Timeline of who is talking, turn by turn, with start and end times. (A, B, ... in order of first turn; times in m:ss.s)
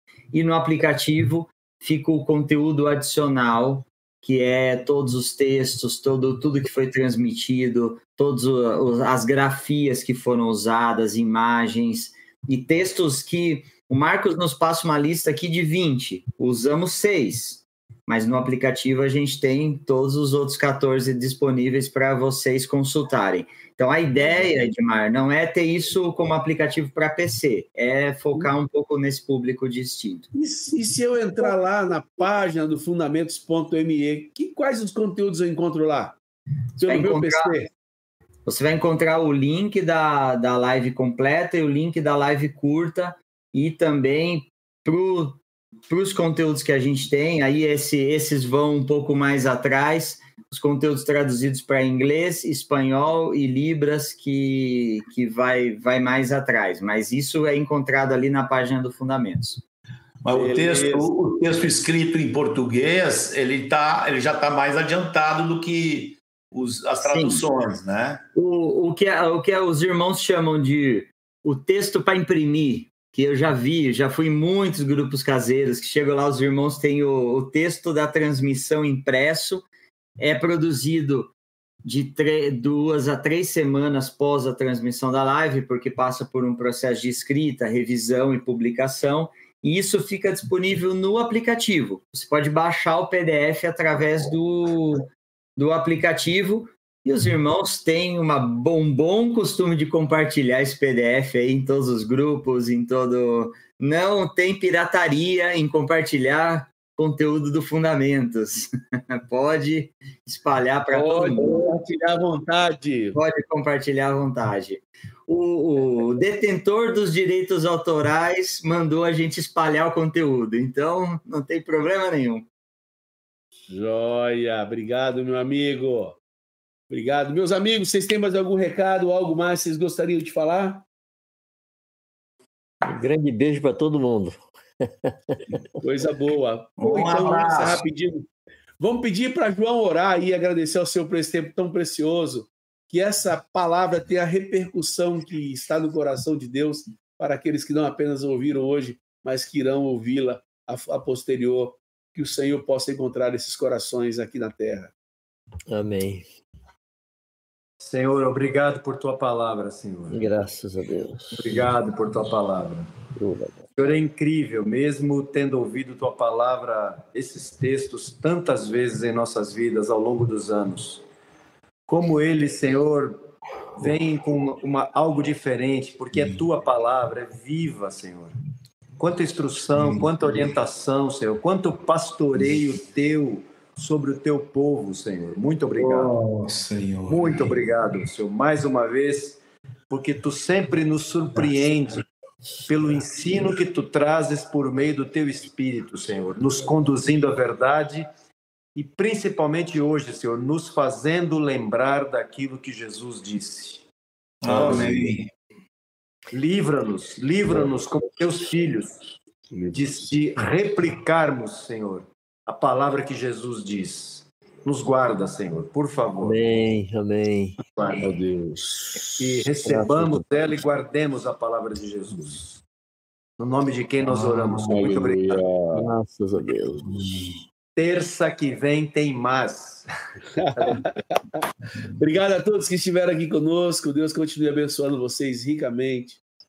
0:00.3-0:30.3 A
0:30.3-0:36.2 B
0:36.8-0:37.7 B
0:36.8-0:37.5 A
0:38.5-0:59.6 A
1:00.2-1:08.2 C
1:00.3-1:01.1 B
1:07.0-1:07.4 A
1:08.4-1:19.7 A
1:20.2-1:21.3 A
1:21.8-1:51.7 A
1:50.9-1:53.2 B
1:53.1-2:02.5 A
2:03.7-2:06.2 B
2:06.9-2:10.8 B
2:12.8-2:15.4 D
2:15.8-2:18.3 B
2:16.8-2:17.8 C
2:18.8-2:34.9 B
2:35.7-2:36.2 D
2:37.8-2:40.2 E
2:40.1-2:41.7 D
2:41.3-2:42.9 E
2:43.2-2:43.7 D
2:43.8-2:51.0 E
2:51.9-2:58.4 E
2:56.1-2:56.4 C
2:59.0-3:06.1 E
2:59.8-3:00.1 C
3:05.8-3:07.7 C
3:07.1-3:12.1 E
3:12.7-3:18.1 E
3:18.8-3:23.8 E
3:24.4-3:25.3 C
3:24.5-3:25.1 E
3:24.5-3:25.1 B
3:26.3-3:29.0 E
3:29.5-3:30.1 B
3:29.7-3:36.4 E
3:36.2-3:37.6 D
3:37.7-3:38.2 E
3:38.0-3:39.5 B
3:39.2-3:42.6 E
3:39.6-3:40.2 D
3:43.4-3:45.4 E
3:44.6-3:45.9 B
3:45.7-3:47.3 D
3:47.8-3:49.9 E
3:50.4-3:51.4 B
3:50.6-3:51.0 E
3:52.0-3:56.2 B